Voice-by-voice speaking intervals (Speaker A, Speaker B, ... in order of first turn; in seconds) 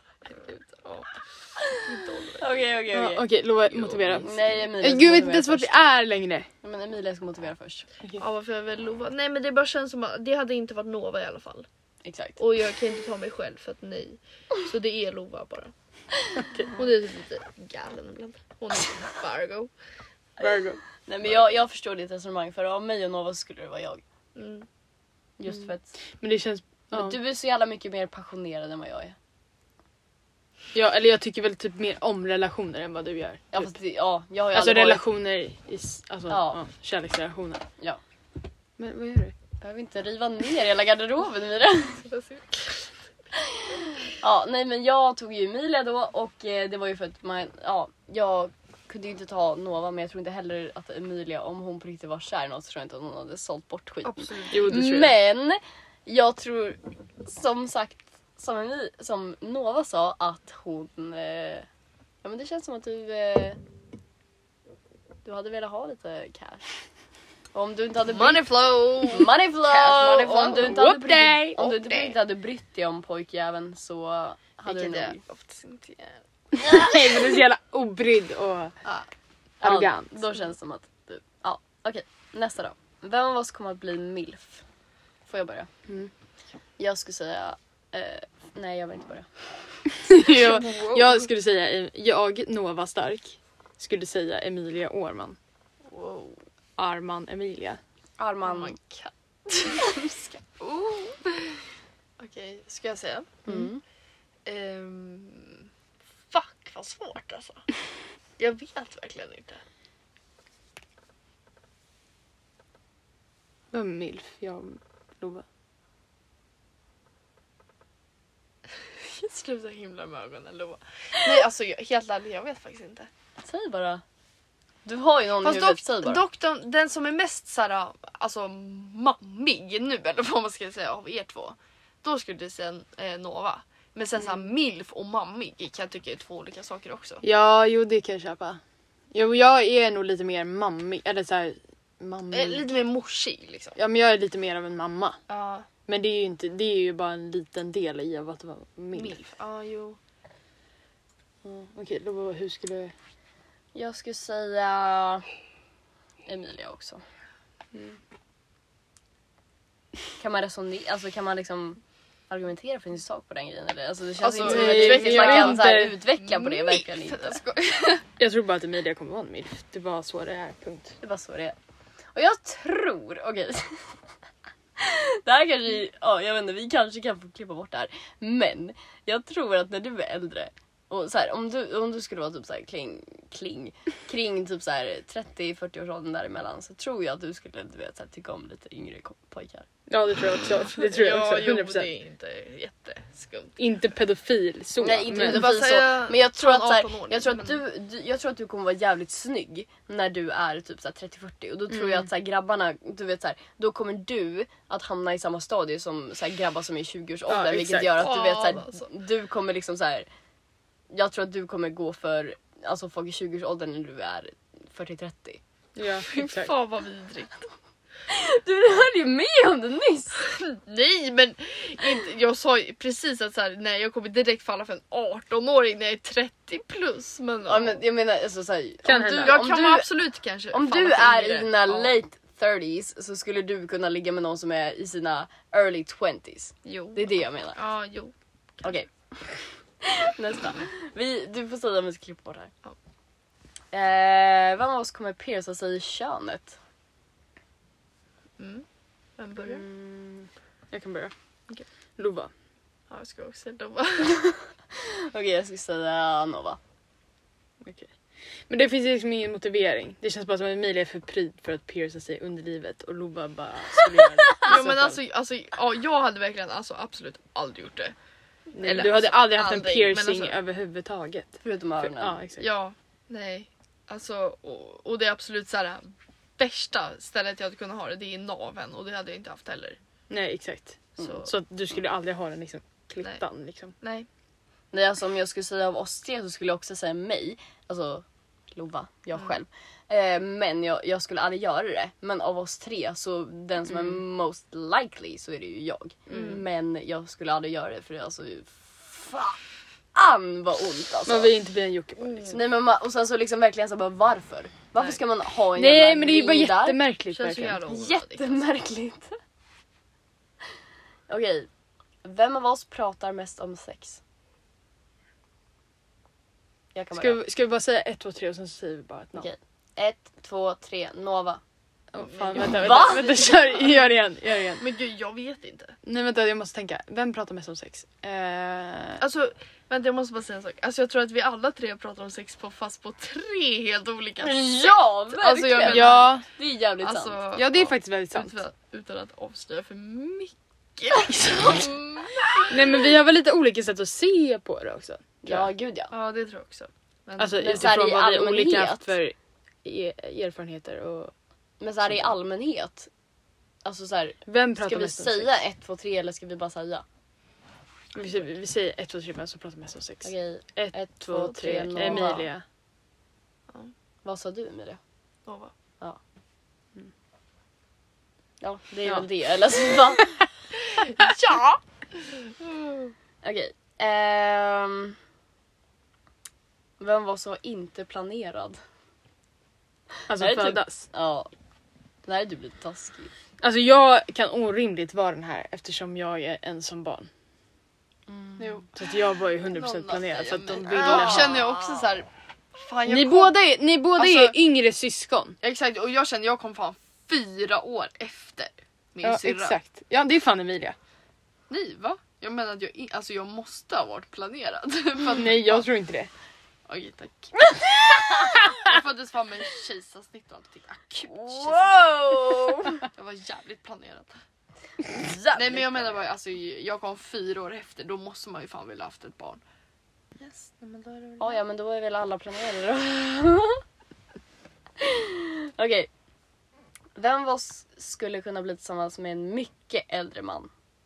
Speaker A: 0.3-2.6, 8.2-11.7, 12.4-15.7, 16.8-19.7, 24.4-24.7, 42.1-42.9, 54.0-54.7, 68.1-70.8, 71.6-72.2, 74.7-76.2, 90.2-91.3, 95.9-96.4, 98.4-98.9, 99.5-101.6, 102.2-103.5, 104.5-105.7, 106.3-107.7, 108.4-109.6, 119.0-123.1, 125.4-137.2, 142.3-143.8, 145.3-145.7, 148.9-150.0, 164.2-168.1, 190.6-193.6, 195.1-197.6, 207.9-208.8, 216.1-217.5, 220.2-227.8, 229.2-231.9, 236.7-238.7, 248.4-248.7, 249.2-249.7, 252.9-254.2, 264.4-267.9, 268.6-270.4, 272.4-279.8, 281.0-281.3, 283.8-284.1, 296.1-296.4, 302.0-302.4, 307.1-308.4, 322.0-323.4, 324.6-325.8, 329.0-336.1, 336.8-342.8, 345.9-347.5, 361.6-362.0, 365.3-365.5, 370.5-372.9, 388.4-388.8, 389.4-393.4, 393.9-394.4, 395.4-399.6, 401.5-405.7, 406.7-407.4, 407.9-414.1, 415.3-419.4, 420.2-421.4
Speaker B: 2.3-5.7, 6.6-7.9, 12.1-12.4, 21.1-24.0, 25.4-26.0, 26.9-29.2, 33.5-35.0, 36.3-36.6, 39.6-42.0, 43.6-61.7, 62.2-63.6, 65.2-66.7, 67.5-68.5, 69.0-75.2, 76.6-76.9, 79.6-84.6, 85.3-85.7, 86.8-89.4, 98.2-99.1, 99.6-100.2, 103.5-103.8, 123.4-124.0, 124.8-126.2, 153.8-155.3, 156.3-157.0, 160.2-167.4, 171.0-171.6, 172.1-173.9, 174.8-189.7, 194.8-210.1, 210.9-215.4, 218.1-220.2, 227.5-229.9, 230.5-237.6, 238.6-242.5, 243.7-246.6, 254.1-256.6, 263.8-264.6, 271.4-272.2, 284.7-299.4, 299.9-301.3, 302.3-306.8, 307.7-309.2, 311.1-311.5, 312.0-314.0, 316.7-317.2, 319.2-321.4, 322.4-323.6, 334.2-337.2, 345.2-345.9, 347.4-348.9, 351.6-352.9, 353.6-356.8, 360.0-362.3, 364.0-364.8, 368.4-370.2, 373.2-375.0, 376.8-378.6, 380.1-381.3, 382.1-383.1, 388.1-388.6, 390.6-391.9, 407.5-408.4, 411.1-412.8, 414.9-416.0, 421.2-423.6, 424.8-425.9, 427.0-430.5
Speaker C: 2.9-6.5, 16.4-16.8, 20.4-20.8, 26.2-27.2, 30.7-33.7, 34.5-37.6, 38.8-39.3, 54.5-55.2, 70.5-71.8, 76.6-78.7, 79.6-80.1, 90.0-95.4, 96.8-97.8, 113.7-115.5, 137.2-138.6, 139.1-142.7, 143.8-145.2, 145.9-149.2, 151.4-152.9, 164.4-166.0, 168.2-171.0, 189.9-191.9, 193.6-195.5, 201.7-202.1, 207.3-208.0, 215.8-216.5, 228.8-229.4, 249.4-251.1, 252.0-252.3, 257.6-257.9, 258.5-265.0, 268.5-272.5, 280.1-283.7, 293.7-294.0, 301.1-302.3, 305.6-307.6, 316.9-319.3, 321.9-324.6, 325.8-329.1, 335.6-336.2, 337.4-338.4, 342.5-345.5, 347.2-351.1, 351.9-352.1, 354.3-355.4, 357.9-362.4, 380.1-380.9, 383.4-387.1, 388.8-391.4, 392.9-395.4, 399.0-400.8, 405.1-406.1